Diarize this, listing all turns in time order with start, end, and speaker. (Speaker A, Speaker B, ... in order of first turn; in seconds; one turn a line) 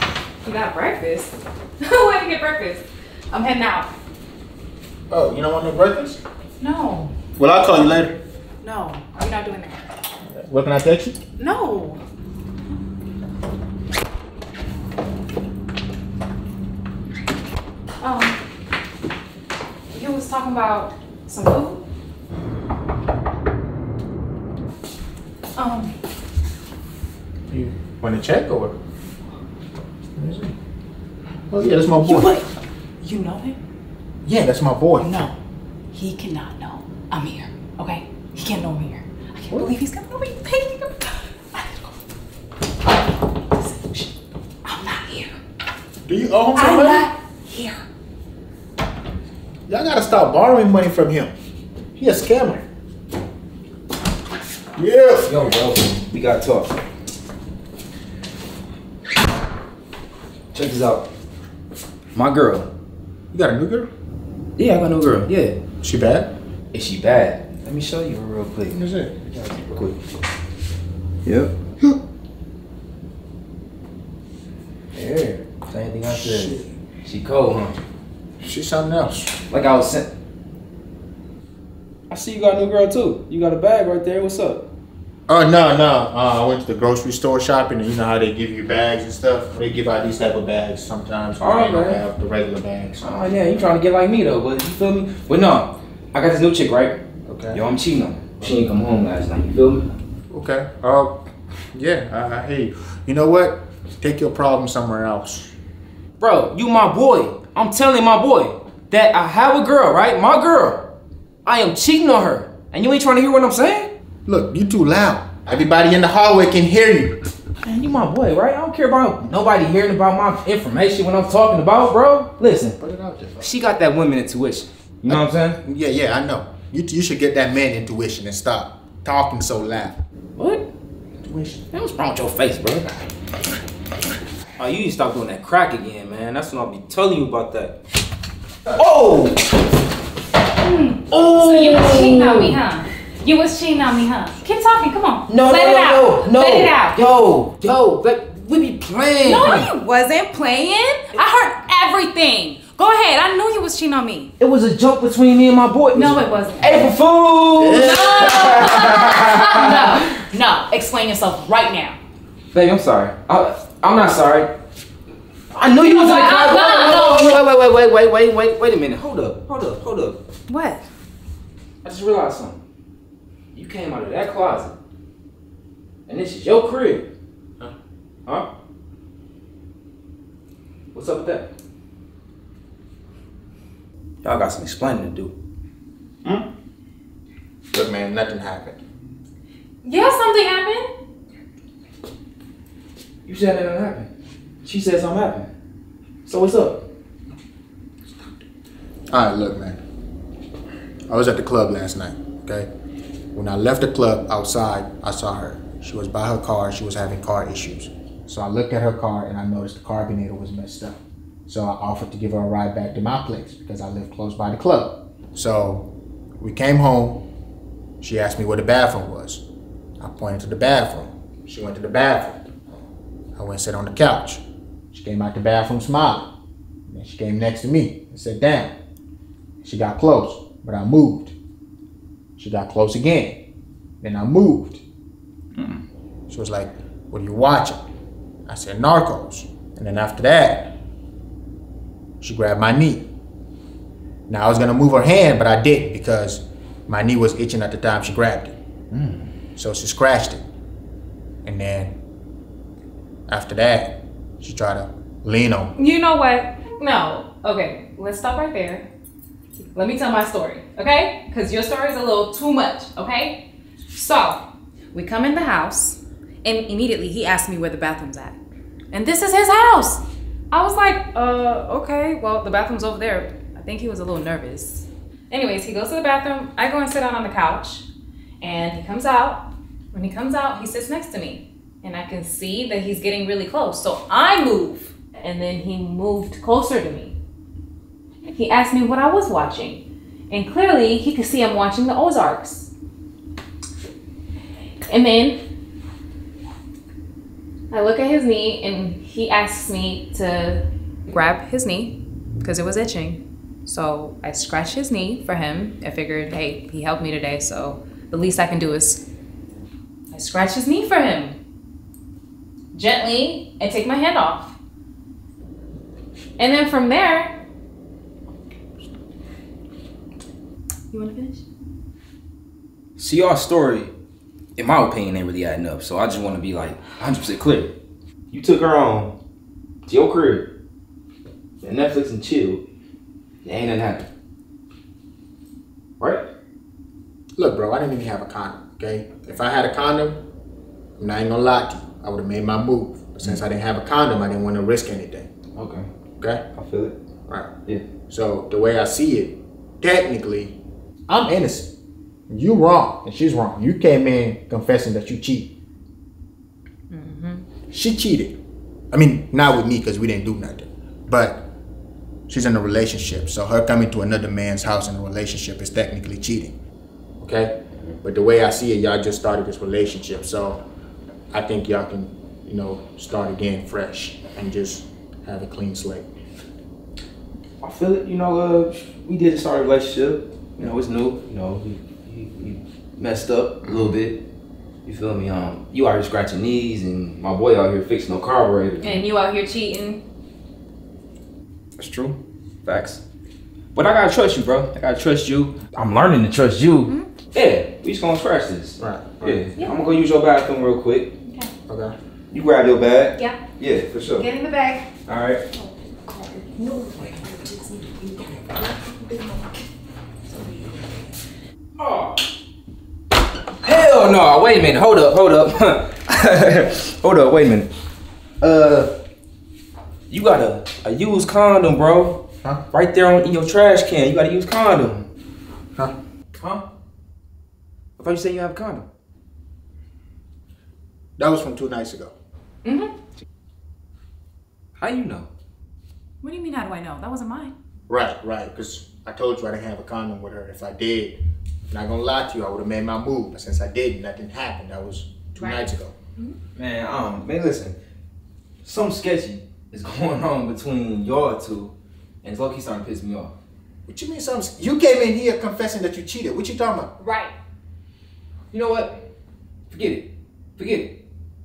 Speaker A: 0.4-3.9
Speaker B: 5.1-6.2
Speaker A: 6.6-7.1
Speaker B: 7.4-8.2
Speaker A: 8.6-9.8
Speaker B: 10.3-11.2
Speaker A: 11.4-12.0
Speaker A: 18.0-18.4
Speaker A: 19.9-21.8
Speaker A: 25.6-25.9
Speaker B: 27.5-28.8
Speaker B: 30.1-30.5
Speaker B: 31.5-32.3
Speaker A: 32.0-32.5
Speaker A: 33.0-33.6
Speaker B: 34.2-35.1
Speaker A: 35.0-35.4
Speaker A: 35.9-41.9
Speaker A: 43.3-44.1
Speaker A: 44.6-45.3
Speaker B: 46.0-47.1
Speaker A: 46.5-47.8
Speaker B: 49.7-51.3
Speaker B: 52.0-52.6
Speaker B: 54.8-55.3
Speaker C: 55.2-56.8
Speaker C: 60.5-61.0
Speaker C: 62.1-62.7
Speaker B: 63.3-63.9
Speaker C: 64.6-65.6
Speaker B: 65.8-66.3
Speaker C: 66.7-70.0
Speaker B: 68.7-69.1
Speaker C: 71.2-71.5
Speaker C: 74.9-77.8
Speaker B: 76.1-76.7
Speaker B: 78.4-79.3
Speaker C: 79.5-80.1
Speaker C: 82.1-84.6
Speaker B: 85.3-93.3
Speaker C: 91.4-92.0
Speaker C: 93.0-97.0
Speaker B: 97.3-97.6
Speaker C: 97.5-99.9
Speaker B: 100.3-101.2
Speaker B: 101.7-105.5
Speaker C: 106.2-110.8
Speaker C: 111.4-113.9
Speaker B: 114.2-117.2
Speaker C: 117.6-122.8
Speaker B: 122.8-123.5
Speaker C: 123.4-125.6
Speaker B: 125.1-129.9
Speaker C: 130.3-130.6
Speaker B: 131.2-131.6
Speaker C: 131.7-132.9
Speaker C: 134.6-137.8
Speaker C: 138.7-139.4
Speaker A: 140.6-147.1
Speaker C: 141.1-142.6
Speaker C: 145.3-149.7
Speaker A: 149.2-154.3
Speaker C: 154.4-160.1
Speaker A: 155.9-156.9
Speaker B: 157.6-158.5
Speaker A: 157.7-162.0
Speaker C: 162.5-164.5
Speaker C: 165.5-170.2
Speaker A: 165.8-167.3
Speaker A: 170.5-170.8
Speaker C: 171.8-172.6
Speaker C: 173.5-174.7
Speaker C: 176.1-177.1
Speaker C: 180.9-181.5
Speaker C: 184.2-185.3
Speaker B: 187.7-188.8
Speaker A: 189.8-190.8
Speaker C: 193.2-194.1
Speaker C: 194.6-195.5
Speaker C: 196.2-196.8
Speaker B: 199.1-199.8
Speaker B: 201.1-202.7
Speaker B: 203.3-215.9
Speaker B: 216.4-217.2
Speaker B: 218.0-219.4
Speaker B: 220.0-222.4
Speaker B: 223.3-226.3
Speaker B: 226.9-228.7
Speaker B: 229.6-231.3
Speaker B: 232.4-233.4
Speaker B: 234.0-234.8
Speaker B: 236.3-237.8
Speaker B: 238.5-240.7
Speaker B: 242.2-243.1
Speaker B: 244.3-248.5
Speaker C: 248.9-249.3
Speaker B: 249.6-250.4
Speaker B: 251.4-251.9
Speaker B: 253.3-255.7
Speaker A: 255.8-258.9
Speaker A: 259.7-263.4
Speaker A: 263.9-264.4
Speaker A: 264.9-268.4
Speaker A: 268.9-270.0
Speaker A: 270.5-277.9
Speaker A: 278.4-287.1
Speaker A: 288.3-292.7
Speaker A: 294.9-295.4
Speaker A: 297.7-309.0
Speaker A: 310.1-311.4
Speaker A: 312.7-314.5
Speaker A: 316.4-317.3
Speaker A: 320.9-321.4
Speaker C: 323.0-323.9
Speaker C: 324.6-327.7
Speaker C: 328.3-329.1
Speaker C: 329.9-330.5
Speaker C: 331.6-332.6
Speaker C: 333.4-334.1
Speaker C: 336.0-336.2
Speaker B: 337.4-340.2
Speaker B: 341.0-345.3
Speaker C: 345.6-345.9
Speaker C: 346.5-346.9
Speaker B: 348.1-350.6
Speaker B: 351.1-351.7
Speaker B: 352.3-355.5
Speaker A: 356.9-357.4
Speaker B: 357.7-358.4
Speaker B: 358.9-361.4
Speaker B: 362.3-366.5
Speaker B: 367.2-370.6
Speaker B: 371.3-376.1
Speaker C: 377.6-384.2
Speaker B: 383.6-384.0
Speaker C: 384.8-389.0
Speaker A: 388.8-390.0
Speaker C: 391.8-393.0
Speaker C: 393.7-401.1
Speaker B: 398.8-399.4
Speaker A: 399.6-399.9
Speaker A: 401.3-401.5
Speaker B: 401.7-401.9
Speaker C: 402.3-404.2
Speaker A: 404.1-404.9
Speaker C: 405.1-405.4
Speaker A: 405.6-407.5
Speaker A: 410.3-410.8
Speaker C: 411.8-412.2
Speaker C: 413.6-417.7
Speaker C: 418.4-418.9
Speaker C: 420.1-422.2
Speaker C: 422.7-425.1
Speaker C: 426.3-426.6
Speaker C: 428.0-428.9
Speaker B: 431.2-432.1
Speaker A: 432.6-432.9
Speaker C: 434.8-435.3
Speaker A: 436.2-437.5
Speaker B: 437.9-441.2
Speaker B: 441.7-445.9
Speaker A: 445.4-446.4
Speaker C: 446.6-447.8
Speaker C: 448.6-453.3
Speaker B: 453.9-456.9
Speaker A: 457.0-457.3
Speaker C: 458.5-459.0
Speaker C: 459.7-460.9